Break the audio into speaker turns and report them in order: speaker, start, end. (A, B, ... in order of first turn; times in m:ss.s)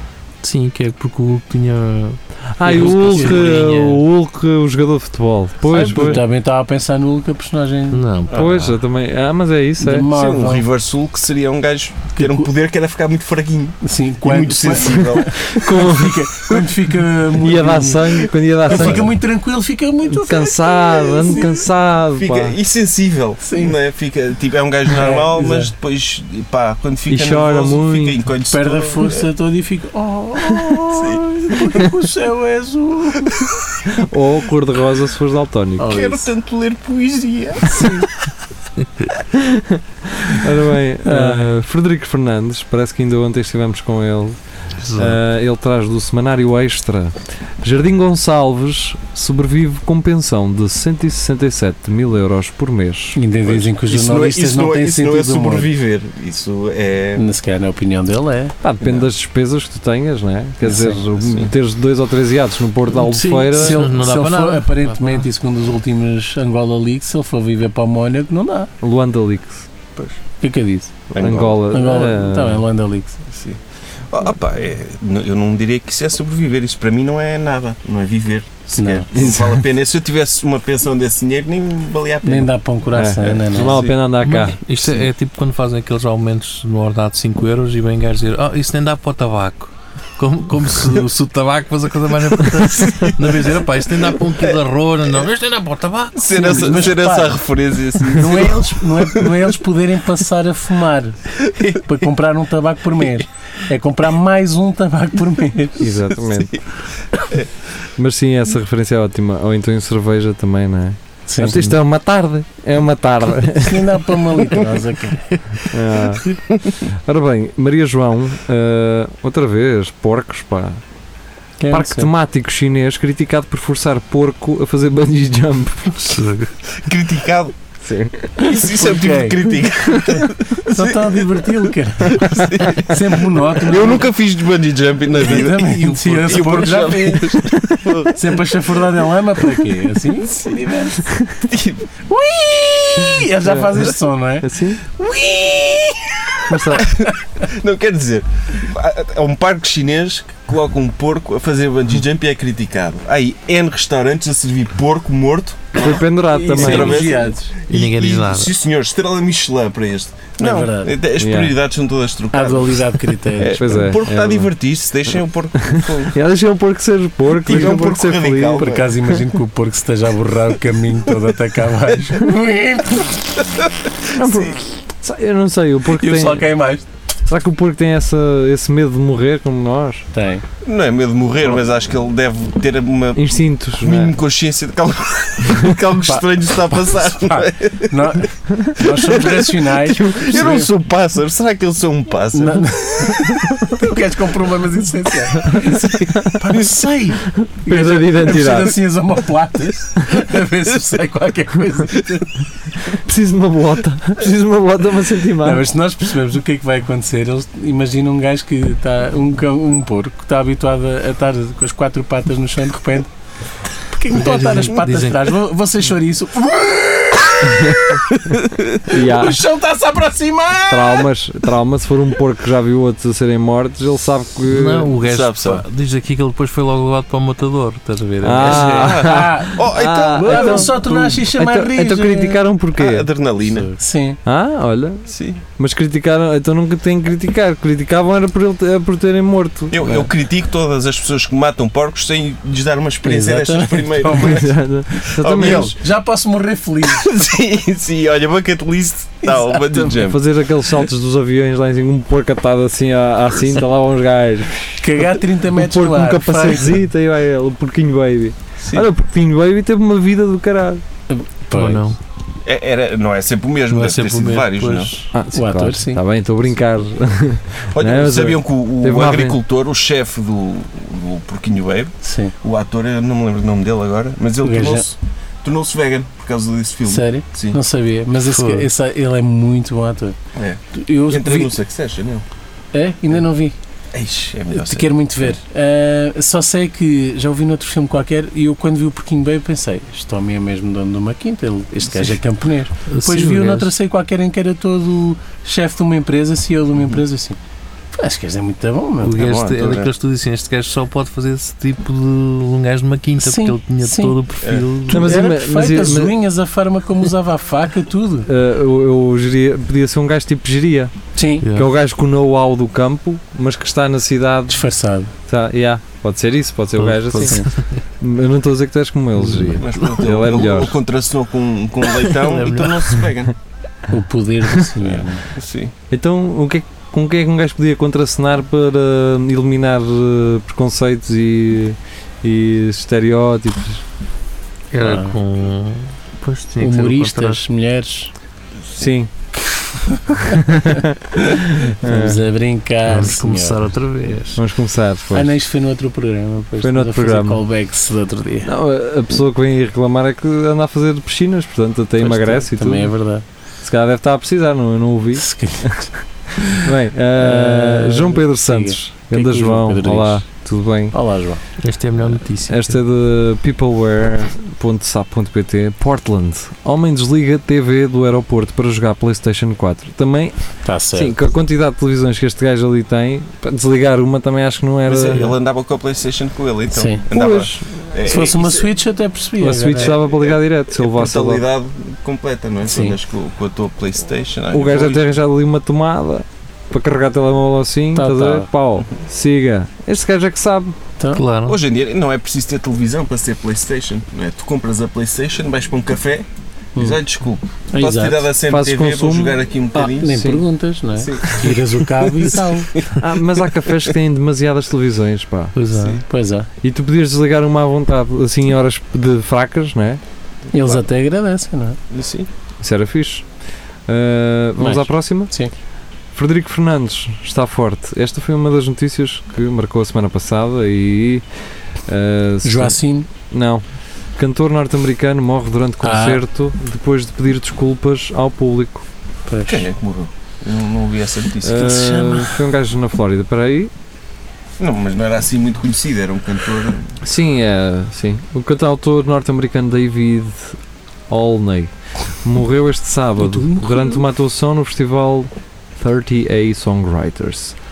0:00.4-0:04.0 A
0:02.6-0:06.2 B
0:02.8-0:03.7 C
0:05.6-0:08.6 C
0:05.7-0:06.2 A
0:07.9-0:08.8 A
0:08.3-0:10.1 B
0:09.8-0:10.6 C
0:10.1-0:15.8 D
0:12.2-0:12.5 C
0:13.8-0:21.5 C
0:15.0-0:16.6 B
0:17.4-0:19.1 B
0:18.7-0:19.0 D
0:20.2-0:22.6 B
0:20.9-0:29.3 D
0:23.4-0:23.8 C
0:24.9-0:25.7 C
0:27.1-0:28.2 B
0:28.5-0:33.5 C
0:30.9-0:31.9 D
0:33.9-0:36.0 B
0:35.8-0:36.2 C
0:35.8-0:38.0 D
0:39.3-0:44.4 B
0:41.0-0:41.5 C
0:44.8-0:45.2 A
0:45.0-0:53.2 B
0:53.2-0:55.7 C
0:53.5-0:57.2 D
0:57.2-0:58.6 C
0:58.6-1:03.9 B
0:58.8-0:59.1 D
1:00.6-1:01.5 D
1:02.9-1:05.2 A
1:03.5-1:08.7 C
1:08.8-1:09.7 B
1:10.4-1:10.9 C
1:11.1-1:11.7 D
1:11.2-1:12.6 B
1:11.7-1:13.2 C
1:13.3-1:22.5 D
1:18.8-1:19.1 C
1:19.2-1:19.6 B
1:22.2-1:23.8 C
1:23.0-1:24.6 B
1:23.3-1:24.0 D
1:24.2-1:36.5 A
1:32.7-1:33.6 D
1:36.2-1:39.5 D
1:36.3-1:37.4 C
1:38.0-1:45.9 C
1:41.4-1:41.9 D
1:45.8-1:46.6 B
1:46.3-1:47.5 D
1:48.0-1:54.3 B
1:51.3-1:51.6 C
1:53.6-1:55.3 C
1:55.7-2:00.8 B
2:01.6-2:02.1 C
2:01.7-2:06.2 B
2:06.0-2:06.5 A
2:06.7-2:07.6 D
2:07.8-2:08.4 B
2:08.4-2:18.8 D
2:08.4-2:09.4 C
2:10.7-2:14.1 C
2:15.2-2:21.1 C
2:15.8-2:16.7 A
2:20.2-2:20.7 D
2:21.4-2:22.2 D
2:22.2-2:24.5 C
2:23.4-2:23.9 B
2:24.4-2:24.8 B
2:25.0-2:46.2 D
2:26.5-2:27.0 B
2:35.8-2:37.1 B
2:36.3-2:37.5 C
2:37.7-2:38.5 A
2:40.4-2:41.0 C
2:41.2-2:41.5 B
2:42.3-2:43.6 C
2:43.5-2:44.5 B
2:45.7-2:48.7 B
2:47.4-2:49.0 D
2:48.6-2:53.6 C
2:54.2-2:54.6 D
2:54.2-2:56.5 B
2:55.9-2:56.9 C
2:57.3-3:00.1 B
3:00.1-3:00.4 C
3:00.6-3:08.2 D
3:03.2-3:04.1 B
3:06.0-3:10.7 C
3:08.6-3:08.8 B
3:08.8-3:13.6 D
3:12.3-3:22.4 C
3:15.4-3:16.9 D
3:15.5-3:16.4 B
3:17.4-3:18.8 B
3:22.9-3:25.6 B
3:25.4-3:33.1 C
3:33.8-3:38.0 C
3:34.1-3:35.4 A
3:37.6-3:37.9 B
3:38.2-3:38.7 D
3:38.9-3:39.4 B
3:38.9-3:41.1 C
3:40.7-3:44.9 B
3:44.5-3:48.8 A
3:45.0-3:45.6 D
3:48.2-3:53.1 B
3:48.4-3:51.1 D
3:48.5-3:52.4 C
3:52.8-3:53.7 D
3:53.4-3:54.2 C
3:54.2-4:00.1 B
3:55.1-3:55.4 D
3:59.7-4:05.8 D
4:03.0-4:04.5 C
4:04.2-4:05.8 B
4:05.3-4:07.1 C
4:06.8-4:10.2 D
4:09.2-4:09.9 C
4:09.9-4:20.8 B
4:14.8-4:16.8 C
4:18.6-4:18.9 D
4:21.1-4:21.9 C
4:21.5-4:22.0 A
4:22.4-4:25.0 D
4:23.7-4:25.1 A
4:25.1-4:29.4 B
4:25.3-4:26.0 C
4:27.7-4:37.6 D
4:32.0-4:32.3 C
4:34.4-4:34.9 C
4:36.9-4:40.2 C
4:38.2-4:38.7 A
4:40.4-4:42.2 D
4:40.7-4:41.6 C
4:42.7-4:43.6 C
4:43.9-4:45.3 D
4:44.5-4:57.4 C
4:52.9-4:53.7 A
4:57.9-4:59.2 C
4:59.0-5:05.3 A
4:59.2-4:59.9 D
5:03.2-5:04.2 C
5:04.4-5:04.7 D
5:04.9-5:08.3 C
5:04.9-5:06.1 B
5:08.3-5:10.9 B
5:11.2-5:11.5 C
5:11.4-5:11.7 A
5:11.5-5:14.6 B
5:14.5-5:15.1 C
5:15.3-5:17.5 B
5:16.8-5:17.8 A
5:17.2-5:17.5 C
5:18.0-5:20.8 B
5:19.2-5:20.0 A
5:19.5-5:23.3 D
5:21.9-5:23.1 A
5:23.9-5:25.2 C
5:24.8-5:25.7 D
5:25.9-5:33.8 B
5:34.7-5:37.4 A
5:34.8-5:35.2 C
5:36.6-5:38.1 C
5:38.8-5:39.1 B
5:39.4-5:40.8 C
5:40.3-5:42.2 B
5:41.3-5:43.7 C
5:42.9-5:44.4 A
5:44.4-5:45.3 B
5:45.1-5:48.5 C
5:46.6-5:47.4 B
5:48.4-5:52.9 B
5:52.0-5:53.2 C
5:53.6-5:55.9 B
5:55.2-5:55.9 C
5:56.5-6:01.0 B
5:57.2-6:00.3 C
6:00.9-6:01.4 C
6:01.6-6:02.8 A
6:02.0-6:15.3 B
6:10.6-6:11.2 C
6:14.9-6:18.7 D
6:16.7-6:17.0 C
6:17.1-6:17.6 B
6:18.0-6:20.0 C
6:19.4-6:21.4 B
6:19.8-6:25.2 D
6:22.6-6:23.0 C
6:24.5-6:30.8 B
6:28.0-6:28.5 C
6:31.1-6:31.6 A
6:31.5-6:40.4 D
6:37.7-6:38.3 C
6:38.5-6:39.4 B
6:39.8-6:42.7 C
6:39.9-6:40.4 B
6:41.0-6:43.9 D
6:43.0-6:45.6 B
6:45.6-6:46.0 A
6:45.7-6:46.0 D
6:45.8-6:46.5 C
6:46.6-6:50.0 B
6:50.5-6:51.8 C
6:50.5-6:50.8 D
6:51.9-6:52.3 D
6:52.6-6:53.3 B
6:53.9-6:55.3 B
6:54.6-6:55.5 C
6:56.1-7:01.2 B
7:01.8-7:02.8 B
7:02.4-7:03.1 C
7:03.3-7:08.8 B
7:05.8-7:06.2 C
7:09.3-7:09.7 C
7:09.5-7:11.8 D
7:11.4-7:13.7 B
7:11.5-7:12.4 C
7:14.6-7:17.0 D
7:17.0-7:20.6 B
7:21.1-7:27.6 B
7:23.2-7:24.0 C